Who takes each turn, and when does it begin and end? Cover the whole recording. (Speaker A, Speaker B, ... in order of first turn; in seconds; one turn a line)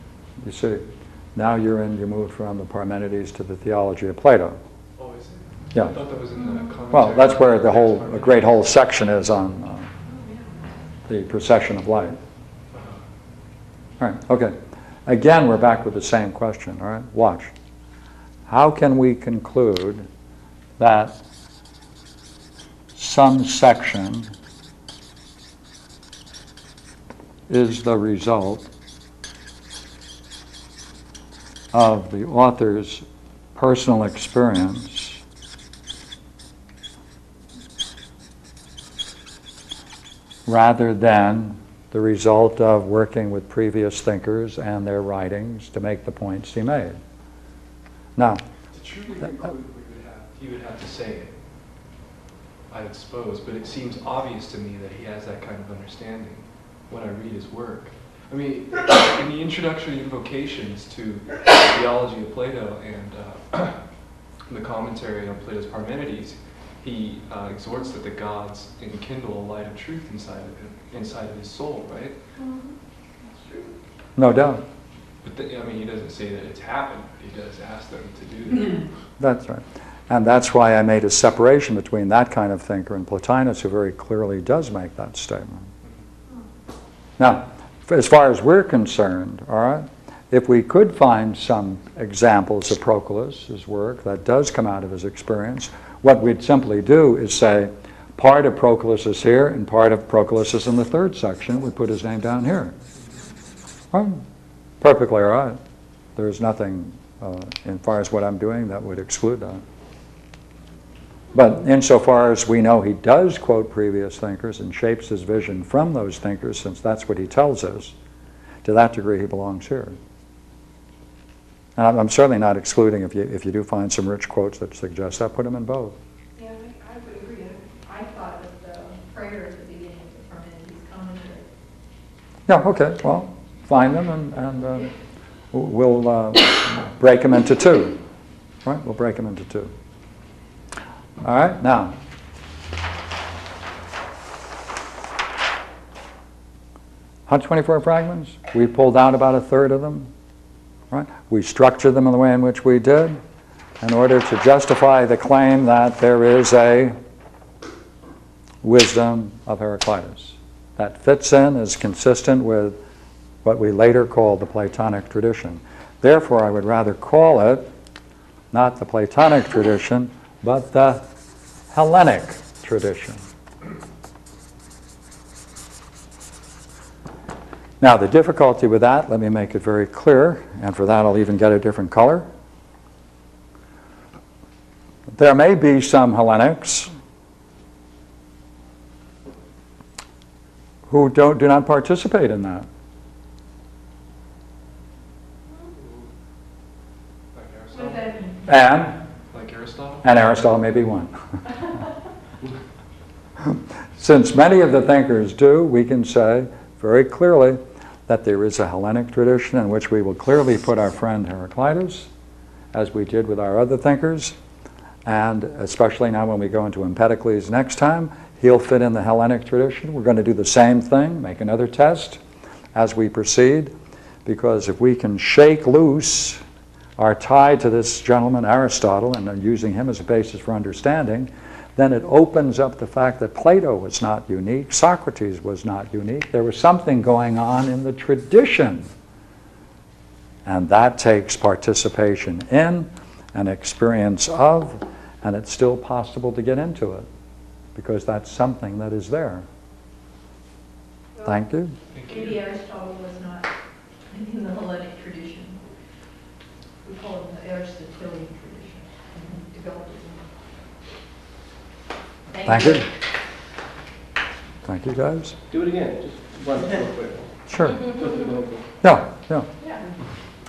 Speaker A: 0.4-4.6
Speaker B: 5.0-8.7
Speaker A: 6.9-9.9
Speaker C: 10.1-10.5
Speaker A: 11.1-12.2
Speaker B: 12.7-13.0
Speaker A: 14.0-17.5
Speaker A: 18.5-20.1
Speaker A: 20.8-21.2
Speaker A: 22.9-24.3
Speaker A: 27.5-28.7
Speaker A: 31.7-33.0
Speaker A: 33.5-35.2
Speaker A: 40.5-47.0
Speaker A: 48.2-48.4
Speaker B: 48.7-51.4
Speaker B: 52.7-63.8
Speaker B: 64.5-72.2
Speaker C: 72.4-73.7
Speaker A: 74.2-74.6
Speaker B: 75.2-78.8
Speaker A: 79.2-85.7
Speaker A: 87.2-102.7
Speaker A: 103.9-104.2
Speaker A: 104.8-105.6
Speaker A: 106.2-109.6
Speaker A: 111.3-117.9
Speaker A: 118.6-120.0
Speaker A: 121.8-126.0
Speaker C: 126.3-131.5
Speaker A: 132.5-134.9
Speaker A: 135.5-138.0
Speaker A: 138.6-139.7
Speaker A: 141.2-141.9
Speaker A: 147.3-150.1
Speaker A: 150.9-153.2
Speaker A: 153.8-156.9
Speaker A: 158.6-162.8
Speaker A: 163.4-167.7
Speaker A: 168.5-171.1
Speaker A: 171.7-173.2
Speaker A: 177.8-182.3
Speaker A: 185.1-186.9
Speaker A: 190.9-192.7
Speaker B: 197.3-198.1
Speaker C: 197.7-198.4
Speaker A: 198.4-199.0
Speaker B: 199.3-200.1
Speaker A: 200.0-201.1
Speaker A: 203.4-212.1
Speaker A: 212.7-214.3
Speaker A: 215.0-222.2
Speaker A: 222.7-223.7
Speaker A: 224.2-226.4
Speaker A: 227.0-238.9
Speaker A: 240.4-247.1
Speaker A: 247.7-249.4
Speaker A: 251.2-251.7
Speaker B: 251.9-252.4
Speaker C: 252.0-253.5
Speaker C: 254.1-255.6
Speaker C: 256.8-260.2
Speaker C: 262.3-262.9
Speaker A: 262.4-262.9
Speaker A: 264.6-265.4
Speaker D: 265.5-268.7
Speaker A: 267.5-267.8
Speaker A: 268.8-269.5